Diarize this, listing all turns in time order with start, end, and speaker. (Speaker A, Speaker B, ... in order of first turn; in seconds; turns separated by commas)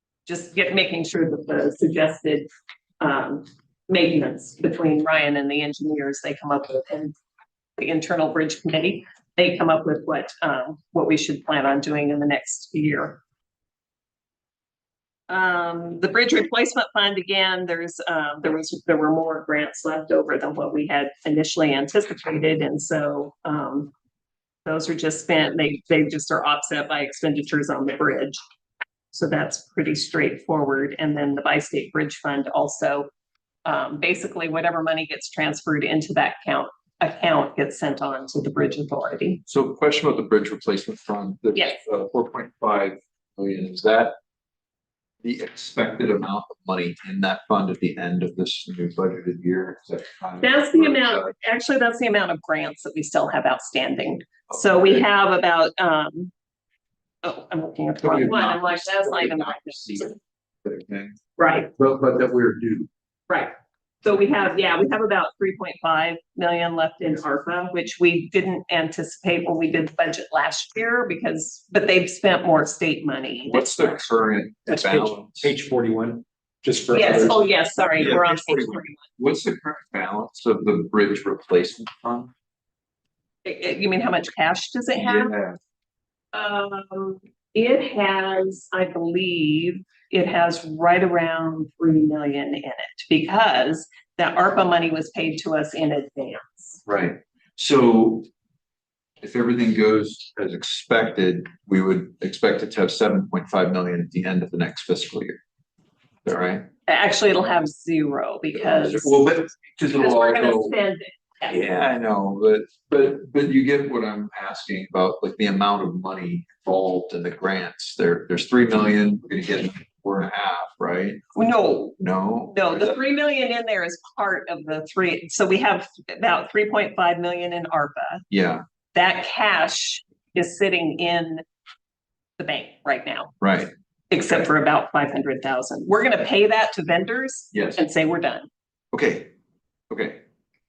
Speaker A: 0.3-2.5, Speaker A: 3.0-7.2, Speaker A: 7.8-13.2, Speaker A: 15.3-23.9, Speaker A: 24.6-28.4, Speaker A: 29.1-33.1, Speaker A: 33.6-39.4, Speaker B: 39.5-44.1, Speaker B: 45.2-51.3, Speaker A: 50.4-56.3, Speaker B: 54.5-55.0, Speaker A: 57.2-60.1, Speaker B: 58.0-61.2, Speaker A: 61.4-61.7, Speaker B: 61.8-62.9, Speaker A: 64.0-74.1, Speaker B: 73.5-75.5, Speaker C: 74.7-77.4, Speaker A: 76.9-79.0, Speaker B: 78.0-82.3, Speaker A: 83.5-85.3, Speaker B: 85.0-85.6, Speaker A: 86.3-96.8, Speaker B: 96.9-98.3, Speaker B: 99.2-105.4, Speaker B: 106.2-106.7, Speaker A: 106.9-109.2, Speaker B: 108.5-110.8, Speaker A: 109.9-111.6, Speaker B: 111.5-121.2, Speaker A: 121.3-128.2, Speaker B: 122.0-123.0, Speaker B: 128.3-128.6, Speaker A: 128.9-131.4, Speaker A: 132.4-133.3, Speaker B: 133.4-133.7, Speaker A: 134.1-138.5, Speaker B: 137.5-137.8, Speaker B: 138.9-139.3, Speaker B: 139.9-140.2